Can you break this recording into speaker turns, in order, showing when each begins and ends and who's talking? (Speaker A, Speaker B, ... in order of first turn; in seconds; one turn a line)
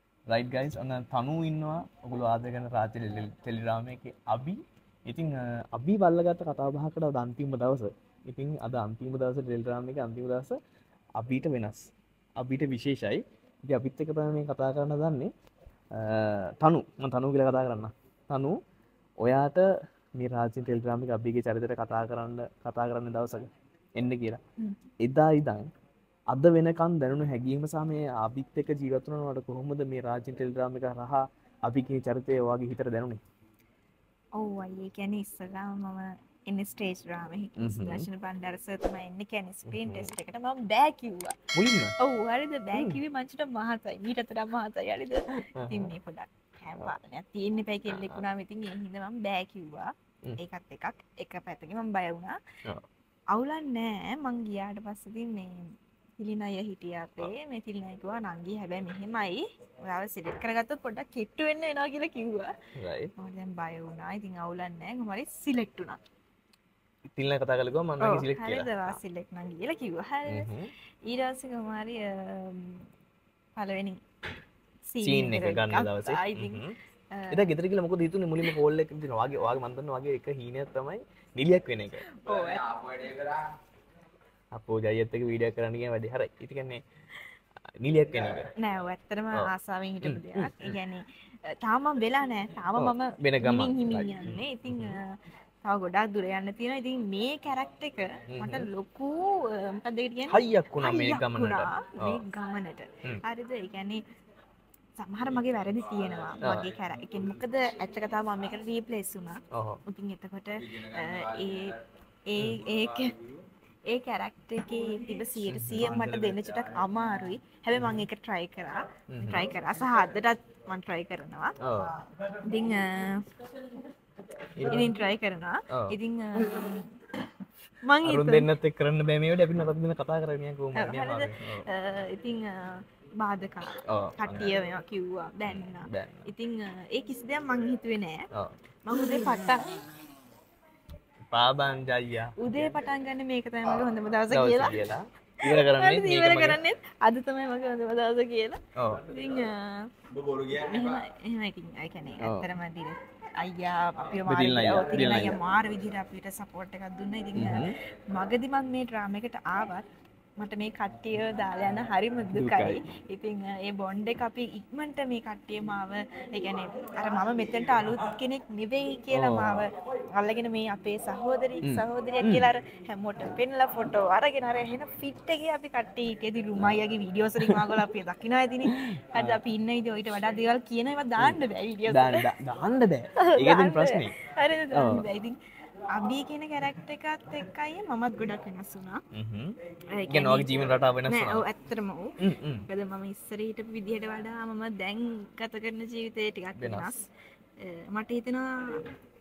Speaker A: 0.3-10.6
Speaker A: 11.2-15.3
Speaker A: 15.9-18.6
Speaker A: 19.2-24.4
Speaker A: 25.0-25.7
Speaker A: 26.3-33.2
Speaker B: 34.4-41.4
Speaker A: 37.6-38.0
Speaker A: 39.7-40.1
Speaker A: 41.5-42.0
Speaker B: 42.0-52.4
Speaker A: 45.6-45.9
Speaker A: 47.9-48.2
Speaker B: 53.3-62.5
Speaker A: 62.8-63.1
Speaker B: 63.2-66.0
Speaker A: 67.1-69.0
Speaker B: 68.0-70.5
Speaker A: 70.3-70.7
Speaker B: 71.1-72.9
Speaker B: 73.6-74.0
Speaker B: 74.9-77.5
Speaker A: 75.0-76.7
Speaker A: 77.3-82.1
Speaker B: 82.0-83.1
Speaker A: 84.5-86.8
Speaker A: 87.8-88.5
Speaker B: 88.6-104.0
Speaker A: 90.0-90.8
Speaker A: 92.8-95.0
Speaker A: 98.3-98.7
Speaker A: 100.3-102.2
Speaker B: 105.0-111.8
Speaker A: 106.4-106.7
Speaker A: 109.5-109.8
Speaker B: 112.3-113.2
Speaker A: 112.4-112.6
Speaker B: 113.9-121.5
Speaker A: 115.5-116.3
Speaker A: 119.1-119.5
Speaker A: 121.6-122.0
Speaker B: 122.4-123.2
Speaker A: 124.5-124.9
Speaker B: 124.7-127.0
Speaker B: 127.8-128.5
Speaker A: 128.0-131.7
Speaker B: 130.7-138.2
Speaker A: 133.9-134.5
Speaker A: 135.5-136.3
Speaker B: 138.8-139.8
Speaker A: 141.3-142.4
Speaker B: 142.4-144.8
Speaker A: 144.3-146.6
Speaker B: 145.4-149.8
Speaker A: 148.8-149.0
Speaker B: 150.3-159.8
Speaker A: 152.2-152.5
Speaker A: 154.3-155.3
Speaker A: 157.3-157.7
Speaker B: 160.4-182.2
Speaker A: 162.3-162.8
Speaker A: 169.1-169.7
Speaker A: 171.6-172.5
Speaker A: 177.4-177.8
Speaker A: 178.7-179.4
Speaker A: 181.2-184.2
Speaker B: 183.2-185.4
Speaker A: 184.7-185.0
Speaker B: 185.9-189.0
Speaker A: 189.1-189.5
Speaker B: 189.9-192.1
Speaker A: 190.1-191.4
Speaker A: 192.2-192.7
Speaker B: 192.7-198.8
Speaker A: 196.6-196.9